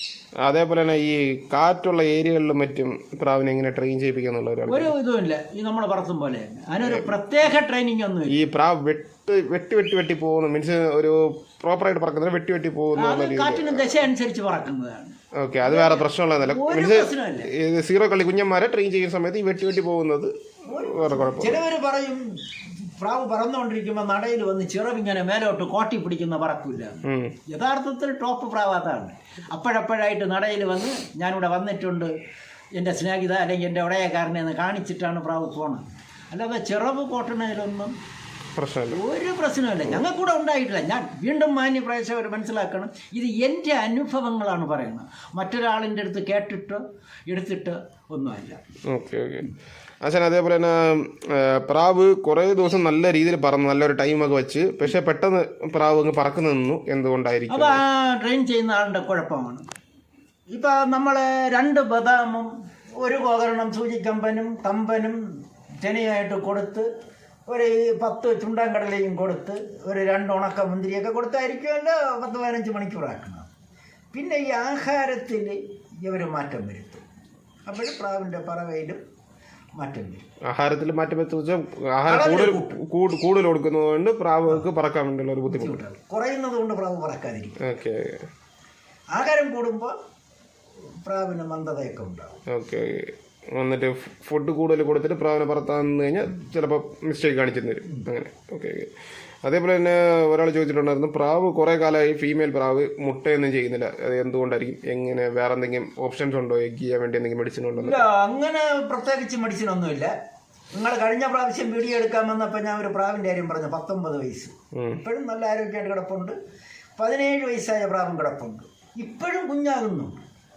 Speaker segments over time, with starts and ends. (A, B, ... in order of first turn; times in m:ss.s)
0:00.4-0:04.9 A
0:04.7-0:08.4 B
0:06.8-0:07.1 A
0:08.3-0:13.9 A
0:12.9-0:17.5 B
0:15.4-0:21.6 A
0:20.6-0:32.1 B
0:27.0-0:27.4 A
0:32.7-0:37.9 B
0:38.6-0:39.0 A
0:38.9-0:48.6 B
0:48.9-0:49.5 A
0:50.0-0:57.8 A
0:57.5-0:59.6 B
1:00.5-1:06.9 B
1:07.5-1:13.5 B
1:14.1-1:17.0 B
1:17.6-1:19.0 B
1:19.8-1:20.3 B
1:20.4-1:25.8 A
1:22.0-1:22.8 B
1:25.5-1:27.6 B
1:27.6-1:28.2 A
1:29.1-1:30.0 B
1:31.0-1:32.4 B
1:32.5-1:38.9 A
1:39.4-1:48.0 A
1:47.8-1:50.1 B
1:50.7-1:56.4 B
1:54.7-1:55.0 A
1:57.0-2:00.2 B